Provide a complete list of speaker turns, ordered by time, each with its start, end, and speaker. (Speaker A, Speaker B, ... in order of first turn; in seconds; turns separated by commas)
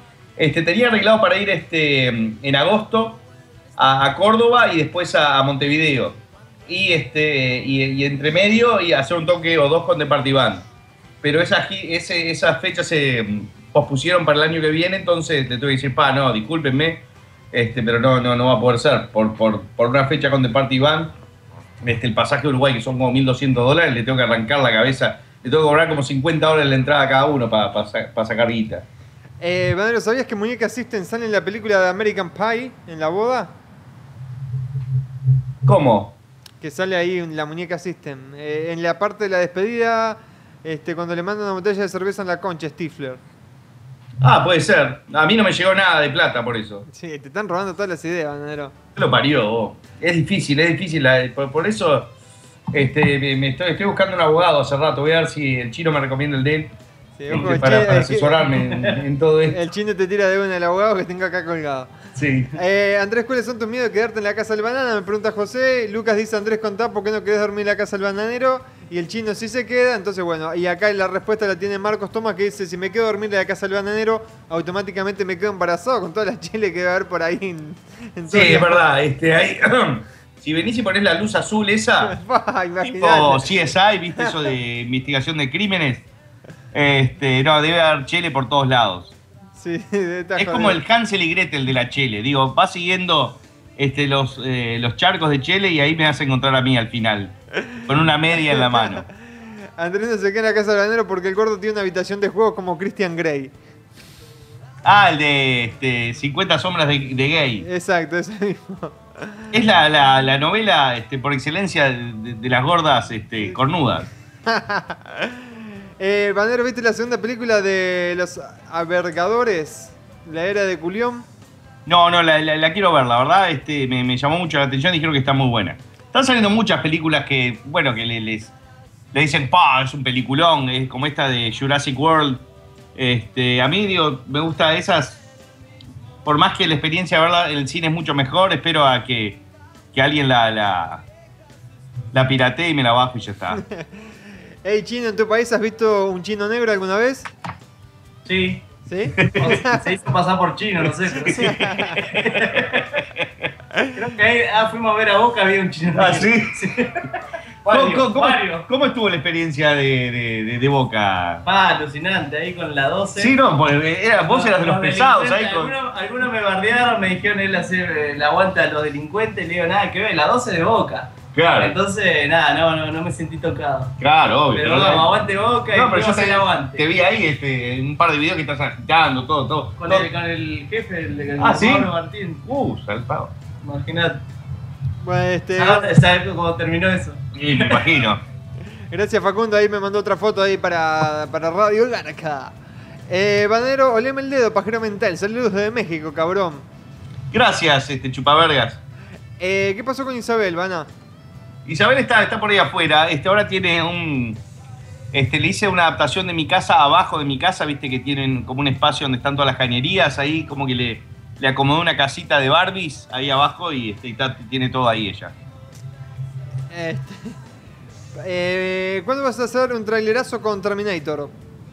Speaker A: 0.4-3.2, Speaker A: 3.8-10.7, Speaker A: 11.2-21.1, Speaker A: 21.8-28.9, Speaker B: 29.4-33.5, Speaker A: 35.6-36.1, Speaker B: 36.6-43.2, Speaker A: 44.2-46.8, Speaker B: 46.9-48.7, Speaker A: 48.9-52.1, Speaker A: 52.7-56.7, Speaker B: 57.2-58.5, Speaker A: 57.3-59.6, Speaker C: 58.5-58.9, Speaker B: 59.5-61.9, Speaker A: 62.1-62.5, Speaker B: 62.5-78.8, Speaker A: 78.3-82.2, Speaker B: 82.0-83.5, Speaker A: 82.8-86.1, Speaker A: 86.7-89.2, Speaker B: 89.6-90.8, Speaker A: 90.4-99.0, Speaker B: 98.4-99.0, Speaker B: 99.8-103.5, Speaker A: 104.8-107.7, Speaker B: 107.6-109.4, Speaker A: 109.5-114.1, Speaker B: 114.5-115.5, Speaker B: 116.0-121.2, Speaker A: 121.8-128.5, Speaker A: 129.1-135.2, Speaker A: 136.2-139.4, Speaker A: 139.9-141.1, Speaker A: 142.1-143.6, Speaker B: 144.6-147.3, Speaker C: 148.2-148.7, Speaker B: 148.8-149.8, Speaker A: 149.2-149.6, Speaker C: 149.3-151.5, Speaker A: 151.2-153.3, Speaker B: 151.3-152.0, Speaker C: 152.1-152.9, Speaker C: 153.9-157.1, Speaker A: 155.9-156.6, Speaker C: 157.6-158.7, Speaker A: 157.7-161.4, Speaker C: 161.4-163.4, Speaker A: 163.2-165.7, Speaker C: 164.2-173.9, Speaker A: 171.3-171.7, Speaker A: 174.0-175.1, Speaker C: 174.5-176.8, Speaker A: 175.7-180.1, Speaker C: 179.8-182.4, Speaker A: 181.4-181.9, Speaker A: 182.4-183.3, Speaker C: 183.6-184.2, Speaker B: 185.0-185.9, Speaker C: 185.6-187.9, Speaker A: 187.3-188.2, Speaker B: 188.9-192.5, Speaker B: 193.1-196.6, Speaker A: 197.3-198.8, Speaker B: 199.4-200.9, Speaker A: 201.7-204.4, Speaker A: 205.1-215.3, Speaker B: 216.7-217.3, Speaker B: 218.2-221.3